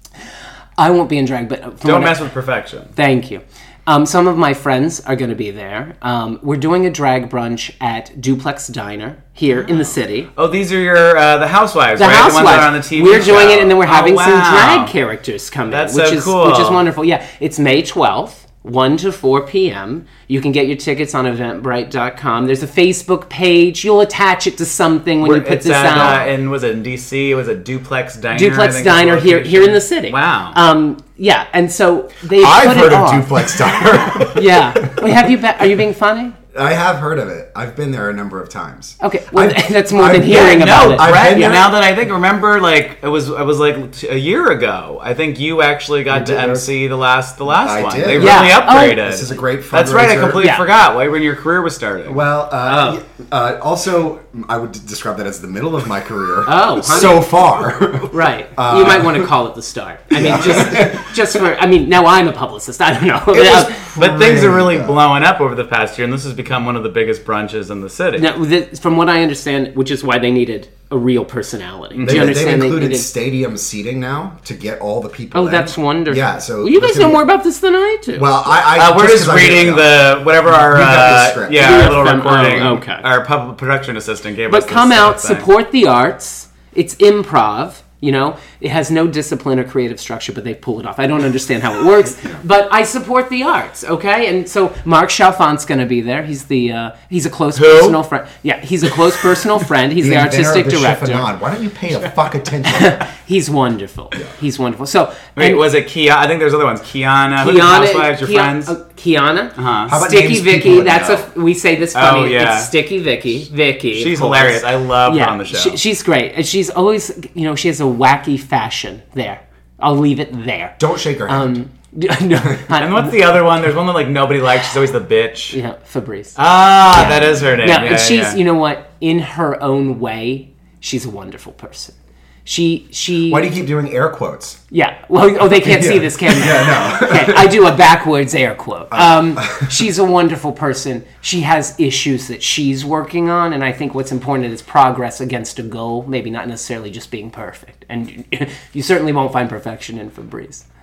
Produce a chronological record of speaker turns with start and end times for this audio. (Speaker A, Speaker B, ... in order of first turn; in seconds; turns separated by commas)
Speaker A: 0.8-2.3, Speaker B: 1.8-2.9, Speaker A: 2.9-10.3, Speaker B: 9.5-14.9, Speaker A: 12.0-26.3, Speaker B: 15.7-16.9, Speaker B: 25.2-30.6, Speaker A: 28.3-36.4, Speaker C: 32.3-35.2, Speaker C: 36.5-41.6, Speaker A: 39.0-41.7, Speaker B: 40.3-52.2, Speaker C: 46.1-46.7, Speaker C: 47.6-50.5, Speaker A: 48.2-49.0, Speaker C: 52.0-59.3, Speaker A: 52.6-53.0, Speaker A: 56.5-57.5, Speaker A: 58.1-63.8, Speaker C: 60.1-61.2, Speaker C: 63.3-65.0, Speaker B: 63.8-68.3, Speaker A: 68.1-73.1, Speaker B: 71.9-72.4, Speaker C: 72.0-77.2, Speaker A: 75.3-78.5, Speaker C: 78.1-81.7, Speaker B: 78.7-85.5, Speaker A: 81.5-83.0, Speaker A: 84.5-101.3, Speaker B: 97.5-98.0, Speaker C: 100.0-103.0, Speaker A: 102.7-105.7, Speaker B: 105.3-108.7, Speaker A: 107.3-123.3, Speaker B: 109.5-109.9, Speaker C: 109.9-111.3, Speaker B: 111.9-112.7, Speaker B: 113.9-115.8, Speaker C: 120.8-121.6, Speaker B: 122.8-125.6, Speaker A: 125.5-126.4, Speaker B: 126.3-128.4, Speaker A: 126.9-133.5, Speaker C: 133.2-134.6, Speaker A: 134.7-150.6, Speaker C: 135.6-137.7, Speaker C: 138.9-139.6